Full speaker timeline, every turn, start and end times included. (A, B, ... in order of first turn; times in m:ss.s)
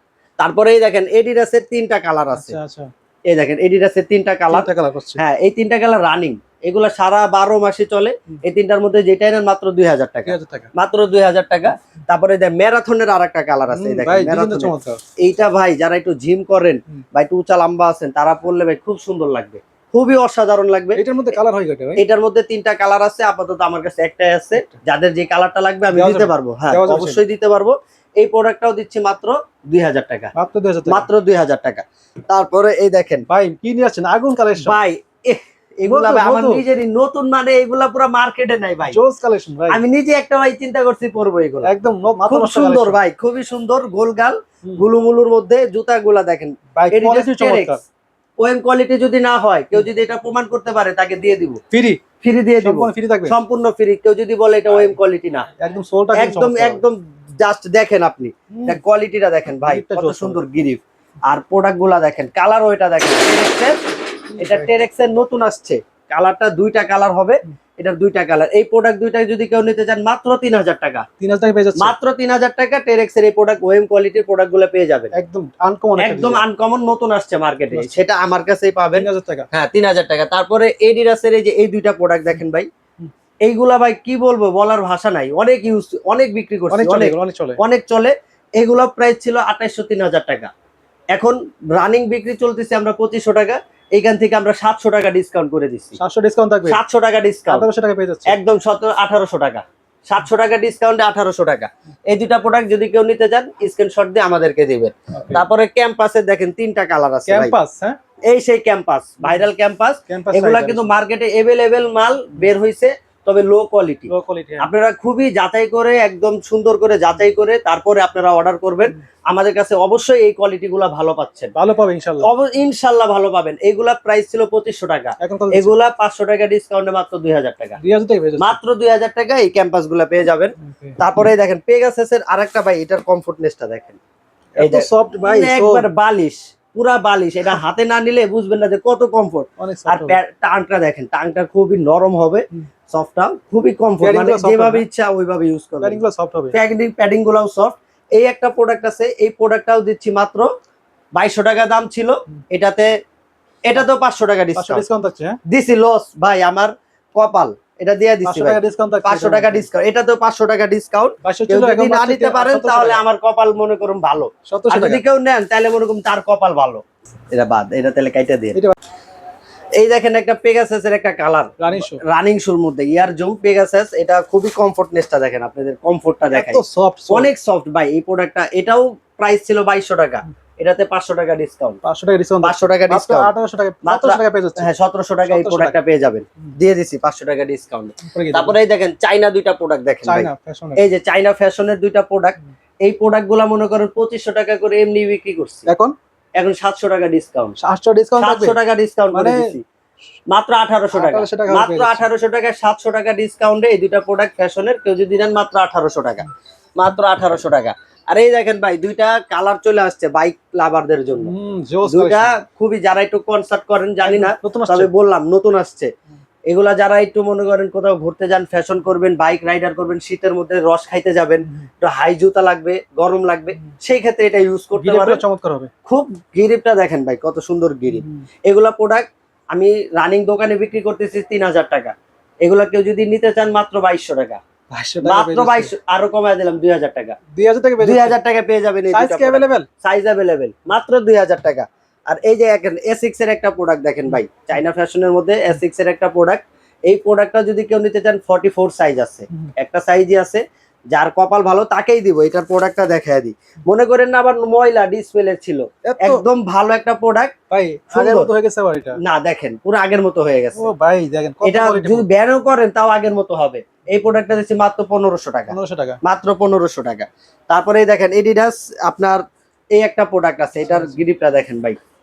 0:00.4-0:02.6 A
0:02.3-0:02.9 B
0:03.3-0:21.0 A
0:04.5-0:05.2 B
0:10.2-0:10.7 B
0:13.7-0:15.0 B
0:20.9-0:22.0 B
0:22.0-0:30.3 A
0:25.9-0:27.2 B
0:30.3-0:31.0 B
0:30.9-0:33.2 A
0:33.3-0:34.8 B
0:34.6-0:39.0 A
0:35.9-0:36.6 B
0:38.9-0:39.8 B
0:39.7-0:41.7 A
0:41.6-0:43.0 B
0:42.3-0:47.8 A
0:46.7-0:47.8 B
0:48.4-0:51.6 A
0:51.7-0:52.0 B
0:52.2-0:55.5 A
0:52.6-0:53.4 B
0:55.6-0:56.8 B
0:56.1-1:03.8 A
0:58.5-0:58.8 B
0:59.6-1:00.4 B
1:04.4-1:11.0 A
1:11.2-1:11.9 B
1:11.8-1:15.1 A
1:15.1-1:16.4 B
1:16.0-1:22.7 A
1:17.7-1:18.0 B
1:18.9-1:19.5 B
1:23.4-1:30.5 A
1:26.7-1:27.6 B
1:31.1-1:36.0 A
1:36.0-1:36.8 B
1:36.6-1:37.6 A
1:37.5-1:38.3 B
1:38.3-1:47.6 A
1:45.1-1:45.4 B
1:47.3-1:48.0 B
1:48.3-1:54.1 A
1:50.1-1:50.9 B
1:54.1-1:54.7 B
1:54.6-2:01.5 A
2:01.6-2:02.3 B
2:02.2-2:07.8 A
2:05.2-2:05.7 B
2:07.8-2:08.6 B
2:08.4-2:14.0 A
2:10.6-2:11.0 B
2:14.6-2:15.8 B
2:14.6-2:26.0 A
2:19.6-2:20.2 B
2:24.0-2:24.8 B
2:25.8-2:26.5 B
2:26.5-2:30.5 A
2:31.2-2:32.9 A
2:33.7-2:34.8 A
2:34.6-2:35.4 B
2:35.5-2:48.6 A
2:38.2-2:39.7 B
2:41.2-2:43.0 B
2:44.5-2:45.0 B
2:49.8-3:01.8 A
2:51.6-2:52.0 B
2:56.3-2:57.3 B
3:01.8-3:04.7 B
3:02.4-3:03.3 A
3:03.8-3:15.7 A
3:05.3-3:05.8 B
3:08.0-3:08.6 B
3:10.0-3:10.8 B
3:15.7-3:15.9 B
3:16.4-3:17.6 A
3:17.6-3:18.6 B
3:18.2-3:19.6 A
3:19.1-3:19.5 B
3:20.3-3:31.3 A
3:20.9-3:22.0 B
3:31.2-3:32.3 B
3:31.9-3:35.9 A
3:34.0-3:34.9 B
3:36.5-3:45.2 A
3:44.8-3:45.7 B
3:45.8-3:54.4 A
3:54.7-3:55.7 B
3:55.0-3:57.2 A
3:57.3-3:58.2 B
3:57.8-4:17.3 A
3:58.9-3:59.7 B
4:15.8-4:16.2 B
4:17.5-4:19.0 B
4:17.9-4:18.3 A
4:19.0-4:20.6 A
4:20.6-4:22.0 B
4:21.4-4:29.2 A
4:25.5-4:26.0 B
4:29.8-4:31.8 A
4:30.6-4:31.0 B